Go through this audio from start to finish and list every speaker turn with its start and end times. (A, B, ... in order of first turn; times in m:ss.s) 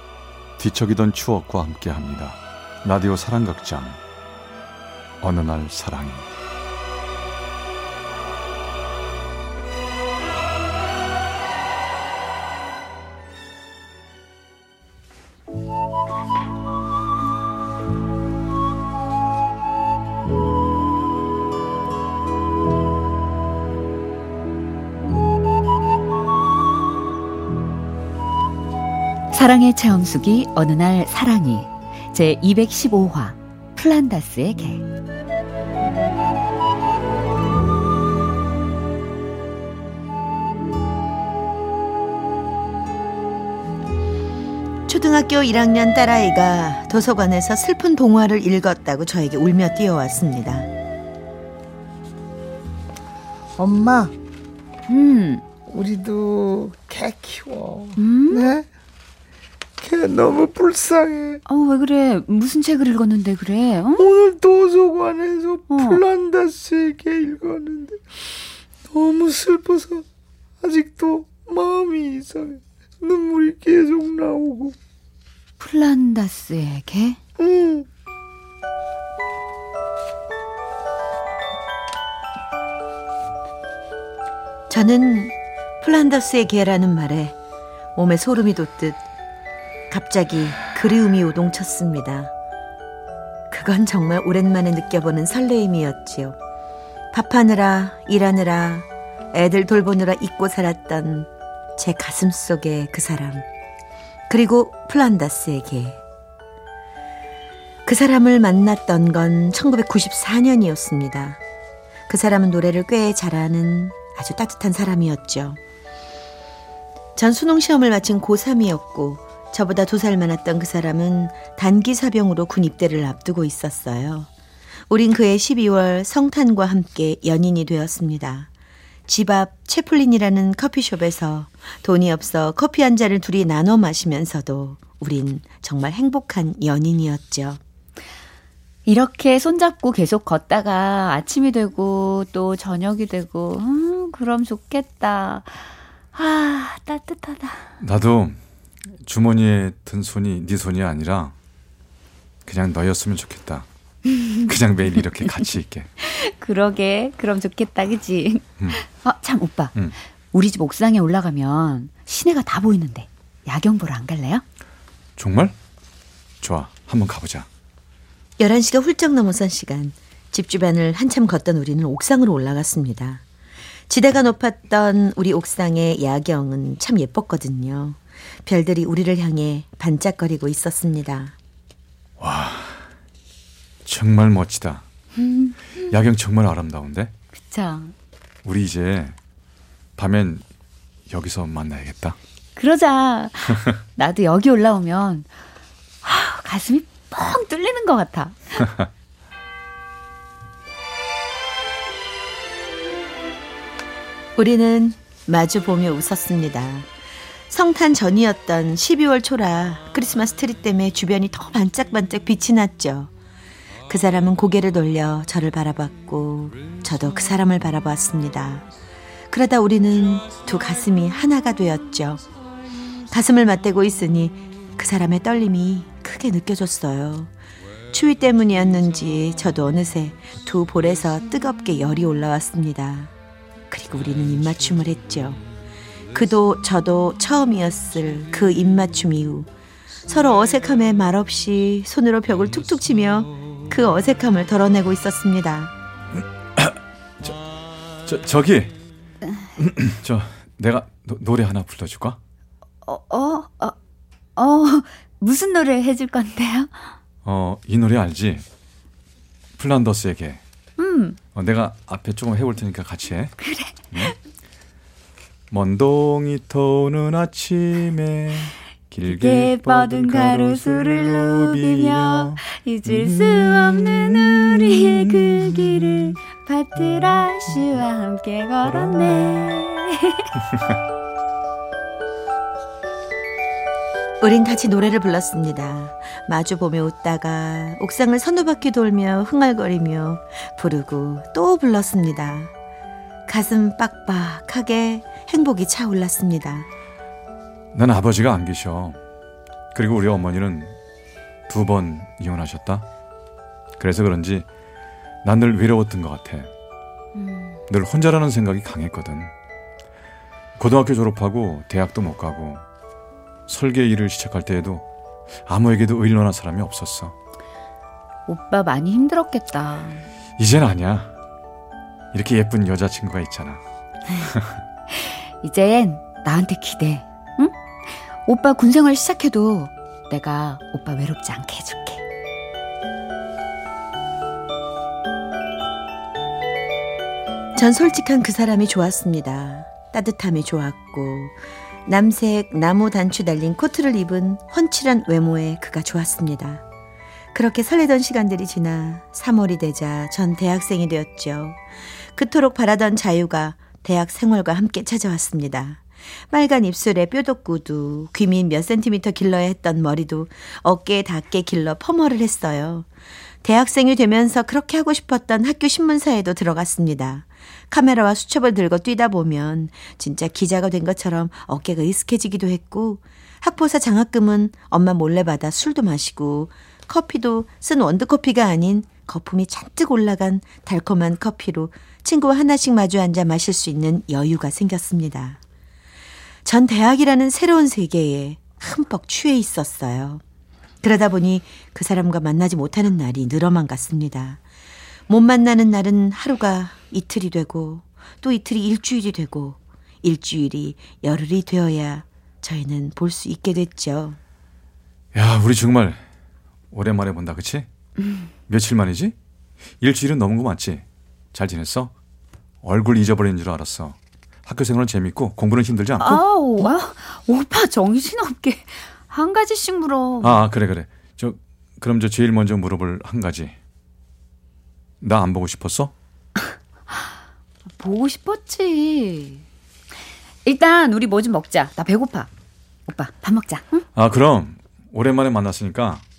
0:00.6-0:04.0 A
0:05.2-0:06.3 A
0:29.3-0:34.8 B
0:44.9-0:50.7 C
0:53.6-0:54.2 D
0:54.9-0:55.4 B
0:55.7-0:58.7 D
0:58.0-0:58.5 B
0:59.8-1:01.4 D
1:01.5-1:04.1 B
1:04.0-1:08.3 D
1:05.7-1:06.0 B
1:08.9-1:10.0 D
1:10.6-1:14.8 D
1:15.6-1:17.2 B
1:17.4-1:17.9 D
1:24.7-1:27.4 C
1:28.0-1:29.0 C
1:29.9-1:32.3 C
1:33.5-1:36.4 C
1:37.1-1:43.4 C
1:44.3-1:46.0 C
1:47.9-1:51.4 C
1:52.1-1:55.6 C
1:57.2-2:04.3 C
2:04.9-2:08.5 C
2:09.1-2:17.6 C
2:18.8-2:27.7 B
2:27.8-2:28.4 A
2:29.0-2:31.3 A
2:32.5-2:33.7 A
2:34.1-2:34.5 B
2:34.4-2:35.9 A
2:36.0-2:39.8 B
2:40.3-2:44.4 B
2:45.2-2:45.6 A
2:46.4-2:47.5 A
2:48.4-2:53.2 C
2:53.9-3:01.4 C
3:02.2-3:02.8 A
3:03.8-3:04.8 A
3:05.2-3:05.9 B
3:05.9-3:07.1 A
3:07.4-3:07.9 B
3:08.4-3:09.2 A
3:10.0-3:10.4 A
3:11.1-3:12.2 A
3:12.6-3:15.3 B
3:16.0-3:18.7 B
3:24.4-3:26.9 C
3:27.5-3:33.1 C
3:33.9-3:38.7 C
3:39.3-3:42.2 C
3:43.1-3:47.3 C
3:47.9-3:53.1 C
3:53.7-3:55.4 C
3:56.1-3:59.5 C
4:00.1-4:05.7 C
4:06.6-4:07.4 A
4:08.0-4:08.7 A
4:09.6-4:12.2 A
4:12.8-4:13.8 B
4:14.4-4:16.8 B
4:17.2-4:18.4 A
4:19.6-4:20.4 A
4:20.8-4:21.2 B
4:21.4-4:23.4 A
4:23.4-4:24.1 B
4:25.5-4:35.6 A
4:29.0-4:40.4 B
4:44.2-4:52.5 C
4:53.3-4:56.7 C
4:57.7-4:59.0 A
4:59.7-5:00.8 A
5:01.5-5:02.8 A
5:03.8-5:04.5 A
5:05.2-5:06.5 A
5:07.2-5:07.6 B
5:07.7-5:09.3 A
5:10.6-5:12.6 A
5:13.5-5:14.8 A
5:15.5-5:17.2 A
5:18.3-5:20.1 B
5:20.4-5:21.1 A
5:22.1-5:23.6 A
5:24.2-5:24.6 A
5:24.9-5:32.0 B
5:37.6-5:46.6 C
5:47.3-5:51.6 C
5:52.2-6:02.9 C
6:03.4-6:25.4 C
6:26.4-6:30.2 C
6:30.8-6:34.4 C
6:35.1-6:44.2 C
6:45.1-6:46.0 A
6:46.7-6:47.7 A
6:48.5-6:49.2 A
6:49.8-6:51.9 A
6:52.6-6:56.2 A
6:56.0-7:00.4 B
7:00.2-7:03.6 A
7:05.0-7:05.9 A
7:07.8-7:09.4 B
7:10.4-7:12.3 B
7:12.9-7:13.8 B
7:14.0-7:16.0 A